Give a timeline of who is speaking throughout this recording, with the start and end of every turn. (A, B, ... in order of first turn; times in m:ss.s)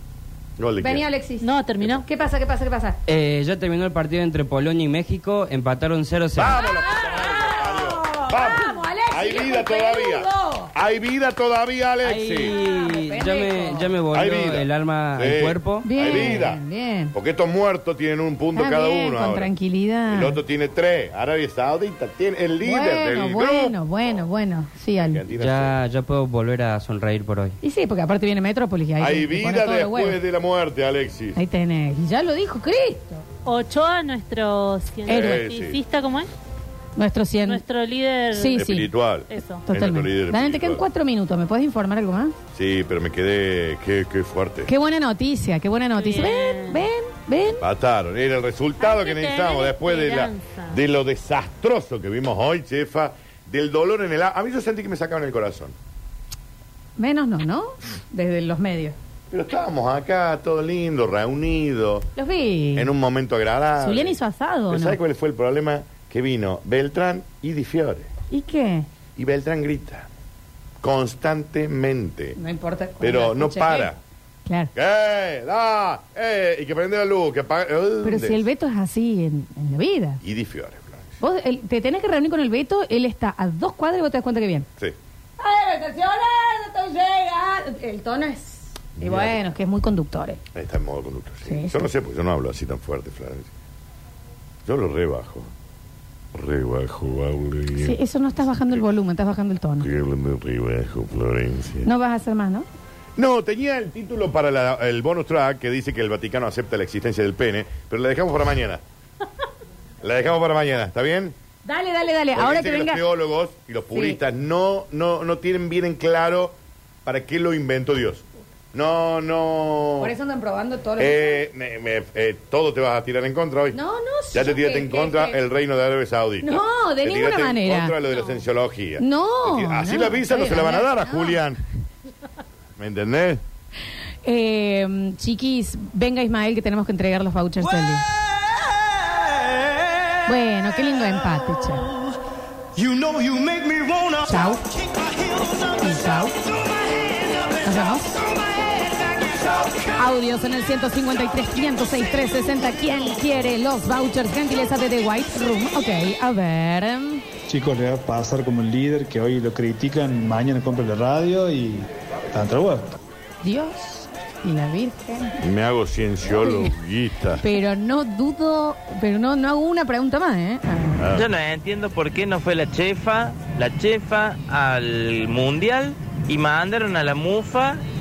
0:00.6-0:01.1 A
0:00.8-0:01.5 B
0:01.4-0:02.0 C
0:02.0-0:03.0 B
0:03.1-0:06.6 D
0:06.4-0:12.5 A
0:06.6-0:10.7 B
0:12.0-0:16.4 D
0:12.1-0:13.9 B
0:14.1-0:16.6 A
0:15.8-0:17.1 B
0:17.1-0:19.5 A
0:18.5-0:20.4 B
0:20.1-0:23.8 A
0:22.6-0:25.2 B
0:25.0-0:25.8 A
0:25.3-0:27.6 D
0:27.6-0:30.2 B
0:29.0-0:31.4 A
0:31.4-0:33.2 B
0:33.4-0:36.3 C
0:35.1-0:35.8 A
0:35.1-0:35.3 B
0:37.0-0:37.6 B
0:37.4-0:38.7 C
0:38.3-0:38.9 B
0:38.5-0:40.8 A
0:39.3-0:39.6 C
0:39.7-0:42.3 B
0:42.5-0:44.7 A
0:44.7-0:47.6 B
0:46.0-0:46.8 C
0:47.6-0:55.7 A
0:48.8-0:50.8 C
0:57.0-0:58.9 B
0:59.3-1:02.1 A
1:02.2-1:02.9 B
1:02.7-1:04.2 A
1:03.8-1:05.0 B
1:04.7-1:08.1 A
1:08.3-1:08.9 B
1:09.2-1:10.1 A
1:10.8-1:12.4 A
1:12.4-1:13.9 B
1:13.0-1:14.0 A
1:14.4-1:14.7 B
1:14.7-1:18.4 A
1:18.0-1:20.2 B
1:20.2-1:21.1 A
1:21.2-1:24.7 B
1:25.4-1:30.4 B
1:29.0-1:29.4 A
1:30.5-1:33.5 A
1:31.4-1:31.8 B
1:34.6-1:35.5 A
1:36.3-1:38.0 A
1:37.8-1:39.9 B
1:39.8-1:41.9 A
1:41.8-1:42.6 B
1:43.2-1:48.8 A
1:50.0-1:51.3 A
1:51.6-1:53.0 B
1:52.4-2:00.1 A
1:53.9-1:54.2 B
2:00.0-2:01.4 B
2:01.0-2:03.8 A
2:03.7-2:05.4 B
2:04.3-2:11.6 A
2:06.4-2:08.0 B
2:09.0-2:11.4 B
2:12.8-2:13.4 A
2:14.2-2:18.0 B
2:20.2-2:21.9 B
2:24.0-2:24.7 B
2:25.6-2:26.4 B
2:27.6-2:28.2 B
2:29.9-2:37.2 B
2:37.5-2:43.0 E
2:43.4-2:45.4 B
2:45.4-2:47.4 A
2:47.4-2:51.0 B
2:51.0-2:51.3 A
2:51.1-2:57.8 F